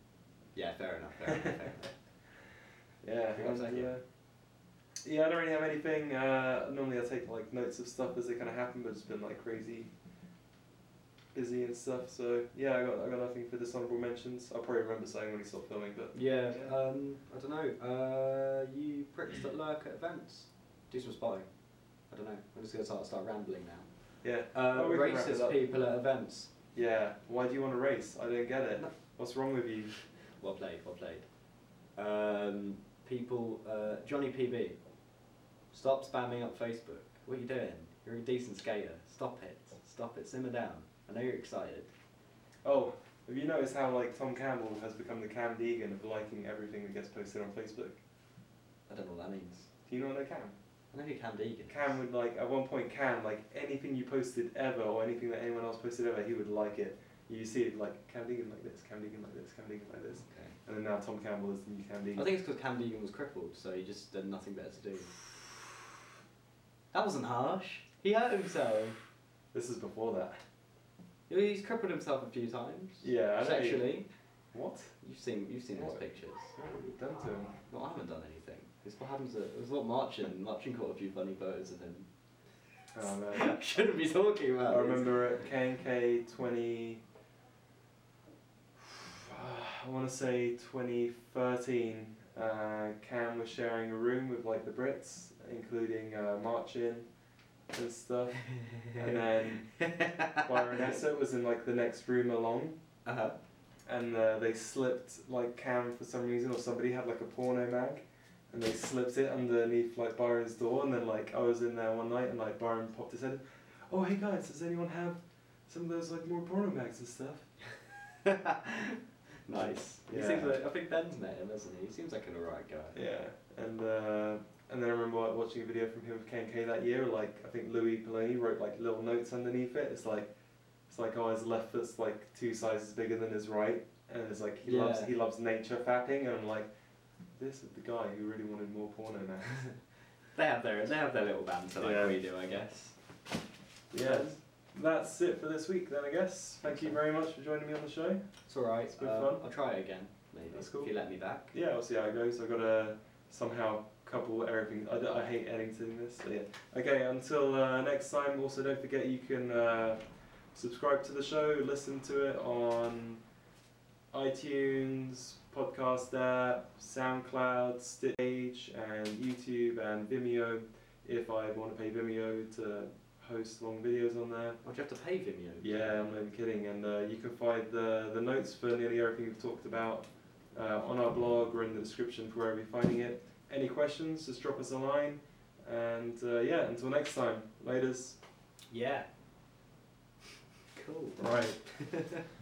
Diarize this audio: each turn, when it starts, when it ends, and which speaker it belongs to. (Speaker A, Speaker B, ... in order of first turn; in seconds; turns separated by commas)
Speaker A: 0.5-1.9, Speaker B: 3.0-9.9, Speaker A: 3.3-4.0, Speaker B: 11.3-16.8, Speaker A: 16.1-26.5, Speaker B: 24.2-25.7, Speaker B: 26.7-30.1, Speaker A: 30.3-34.9, Speaker A: 35.7-41.9, Speaker B: 42.6-48.0, Speaker A: 48.9-49.7, Speaker B: 49.9-50.5, Speaker A: 50.9-52.0, Speaker B: 51.7-62.3, Speaker A: 60.2-60.6, Speaker A: 62.2-65.5, Speaker A: 66.9-69.0, Speaker B: 69.5-70.4, Speaker A: 71.3-74.1, Speaker B: 73.0-74.0, Speaker B: 74.5-75.0, Speaker A: 75.0-76.5, Speaker B: 75.7-77.6, Speaker A: 77.7-82.1, Speaker B: 82.9-83.6, Speaker A: 83.0-85.2, Speaker B: 84.7-87.0, Speaker B: 89.1-102.8, Speaker A: 98.6-100.7, Speaker A: 103.0-103.4, Speaker B: 103.8-117.7, Speaker A: 118.2-123.0, Speaker B: 119.5-120.6, Speaker B: 122.9-130.3, Speaker B: 130.9-136.7, Speaker A: 134.6-135.1, Speaker B: 137.3-139.7, Speaker A: 139.6-143.0, Speaker B: 141.8-142.2, Speaker B: 143.9-149.5, Speaker A: 144.0-144.3, Speaker A: 146.7-146.9, Speaker A: 148.4-151.5, Speaker B: 150.5-163.2, Speaker B: 164.1-174.6, Speaker A: 174.6-176.1, Speaker B: 175.6-188.2, Speaker A: 188.7-189.1, Speaker A: 190.7-192.2, Speaker B: 191.2-192.2